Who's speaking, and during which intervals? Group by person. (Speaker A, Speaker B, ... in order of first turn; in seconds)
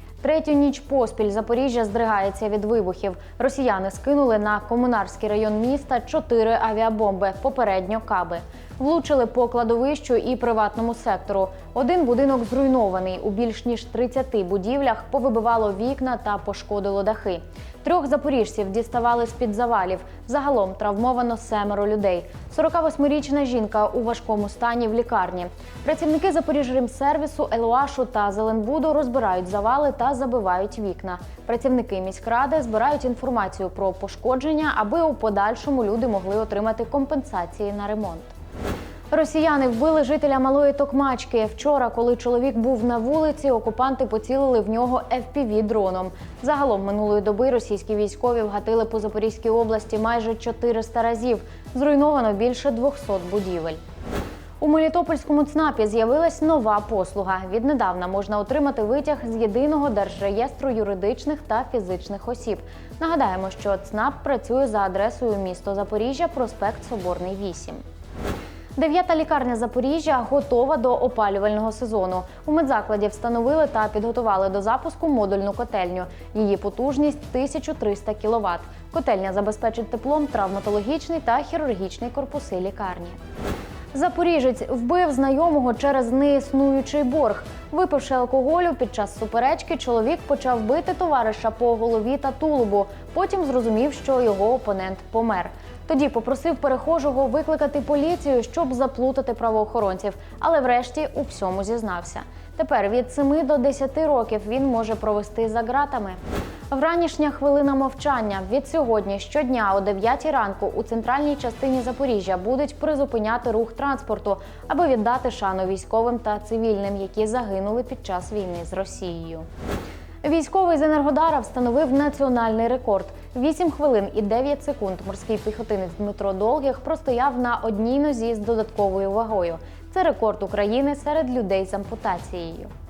Speaker A: 0.2-38.3, 39.1-53.8, 54.6-67.8, 68.8-83.2, 83.9-106.2, 106.7-119.5, 120.2-132.7